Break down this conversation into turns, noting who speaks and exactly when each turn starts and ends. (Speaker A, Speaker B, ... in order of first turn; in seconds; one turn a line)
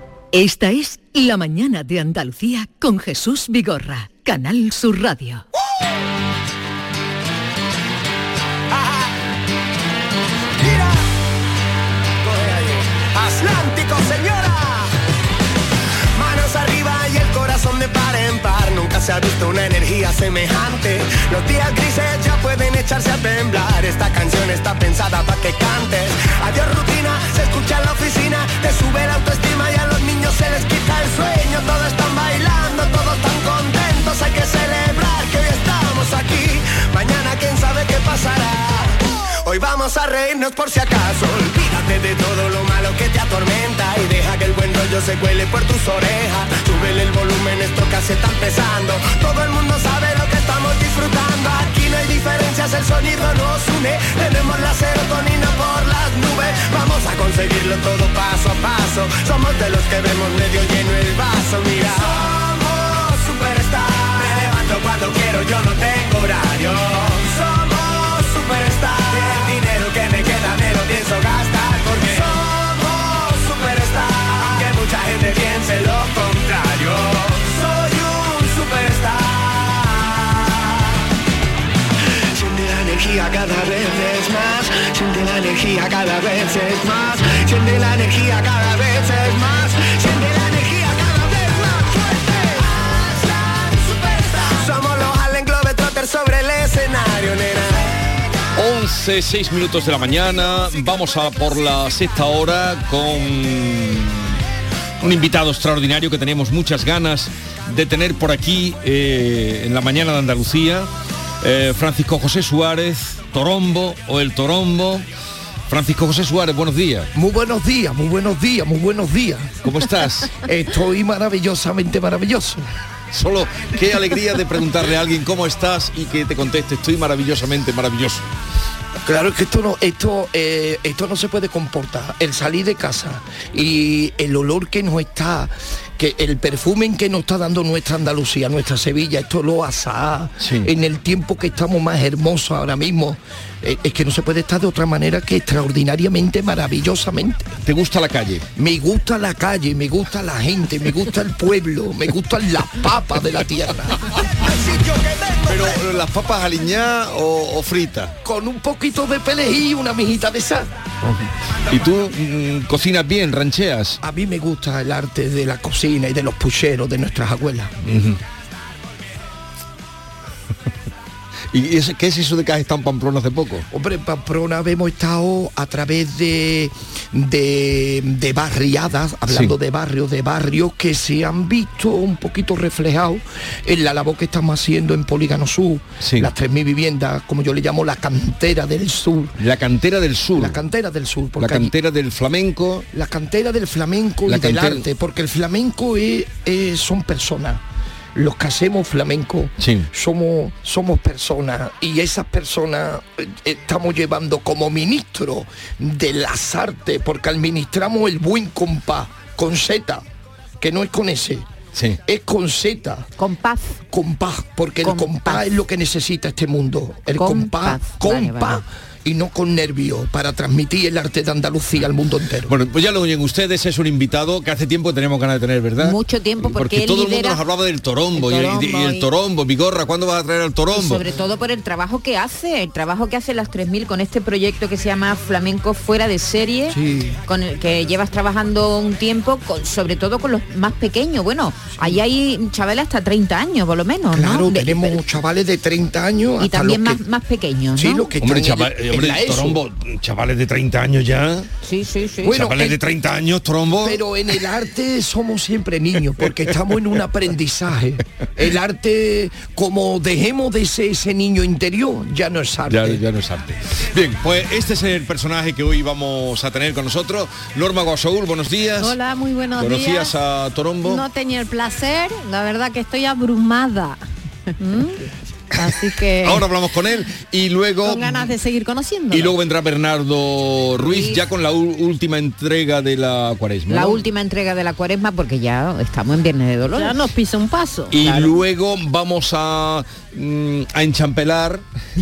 Speaker A: 0.3-5.4
Speaker B: 8.7-9.1
Speaker B: 10.6-11.1
Speaker B: 12.2-14.9
Speaker B: 16.1-80.7
Speaker B: 82.2-98.0
Speaker C: 98.5-104.3
Speaker C: 105.0-110.9
Speaker C: 111.4-115.0
Speaker C: 115.7-117.1
Speaker D: 117.1-119.6
Speaker C: 119.6-120.4
Speaker D: 120.4-122.7
Speaker C: 123.1-128.2
Speaker D: 129.0-147.6
Speaker C: 140.4-140.7
Speaker C: 147.6-148.4
Speaker D: 148.6-154.0
Speaker B: 154.4-155.8
Speaker C: 155.4-158.1
Speaker D: 158.2-160.7
Speaker C: 161.0-164.0
Speaker D: 164.0-167.7
Speaker C: 167.8-168.2
Speaker C: 171.5-173.7
Speaker D: 173.7-189.4
Speaker C: 179.3-179.5
Speaker C: 186.0-186.3
Speaker C: 189.4-190.6
Speaker D: 190.3-191.7
Speaker C: 191.4-192.9
Speaker D: 192.9-197.6
Speaker C: 194.2-194.8
Speaker D: 198.1-210.0
Speaker C: 199.6-199.9
Speaker D: 210.6-211.5
Speaker C: 211.7-212.0
Speaker D: 212.0-213.1
Speaker E: 213.2-213.8
Speaker D: 213.9-222.5
Speaker E: 214.8-215.4
Speaker E: 217.1-218.6
Speaker C: 222.5-231.0
Speaker E: 225.8-227.4
Speaker E: 228.1-229.1
Speaker E: 230.7-245.0
Speaker D: 244.1-247.0
Speaker E: 246.4-248.1
Speaker D: 247.7-249.6
Speaker C: 248.2-251.5
Speaker E: 251.6-252.7
Speaker C: 252.2-254.0
Speaker D: 252.2-252.7
Speaker D: 253.8-263.0
Speaker C: 262.7-269.0
Speaker F: 268.8-270.1
Speaker C: 269.5-271.1
Speaker F: 270.8-274.0
Speaker F: 274.6-276.5
Speaker C: 276.2-278.4
Speaker F: 277.8-279.4
Speaker C: 279.1-284.0
Speaker E: 283.7-287.0
Speaker F: 286.7-288.1
Speaker C: 287.9-291.6
Speaker E: 288.0-288.3